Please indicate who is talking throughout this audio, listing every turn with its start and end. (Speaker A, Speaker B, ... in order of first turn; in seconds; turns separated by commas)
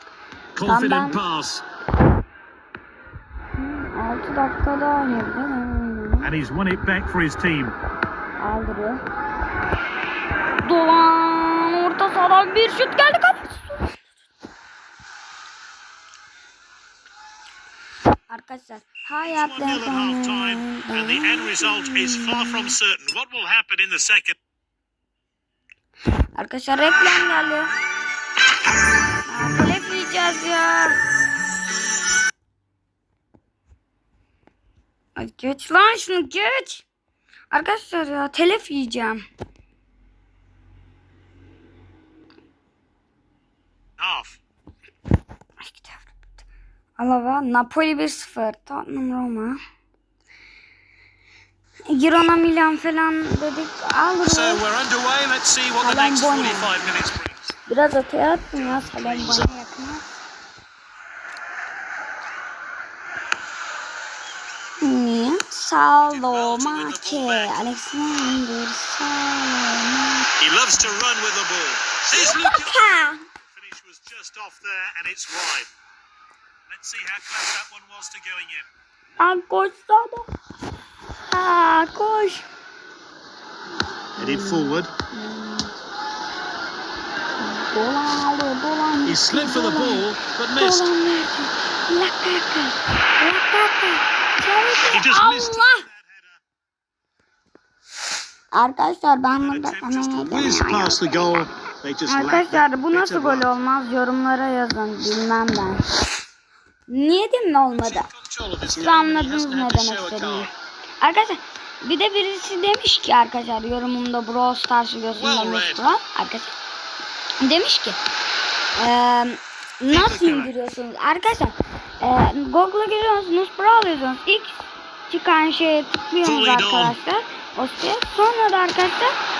Speaker A: 0.5-1.6, Speaker B: 0.7-1.2, Speaker B: 3.5-6.3, Speaker A: 6.2-7.8, Speaker B: 8.4-9.0, Speaker B: 10.6-14.0, Speaker B: 18.3-22.7, Speaker A: 19.2-24.4, Speaker B: 26.3-27.7, Speaker B: 29.2-31.0, Speaker B: 35.1-36.9, Speaker B: 37.5-39.2, Speaker A: 44.0-44.4, Speaker B: 45.6-46.1, Speaker B: 47.0-49.6, Speaker B: 51.9-54.6, Speaker A: 54.2-57.5, Speaker B: 55.8-56.7, Speaker B: 57.7-60.0, Speaker A: 58.5-59.6, Speaker B: 64.8-70.3, Speaker A: 66.0-67.7, Speaker A: 70.4-75.7, Speaker B: 72.1-73.2, Speaker A: 76.7-78.7, Speaker B: 79.2-80.3, Speaker B: 81.3-82.4, Speaker B: 84.2-85.8, Speaker A: 84.2-84.9, Speaker B: 87.4-95.8, Speaker A: 89.0-90.9, Speaker A: 94.8-96.4, Speaker B: 98.5-101.1, Speaker A: 99.4-103.5, Speaker B: 102.1-105.8, Speaker B: 106.9-108.1, Speaker A: 107.8-110.5, Speaker B: 108.7-110.5, Speaker B: 111.0-116.5, Speaker A: 115.1-115.9, Speaker B: 117.4-118.0, Speaker B: 118.8-129.1, Speaker A: 119.9-120.5, Speaker A: 126.2-127.0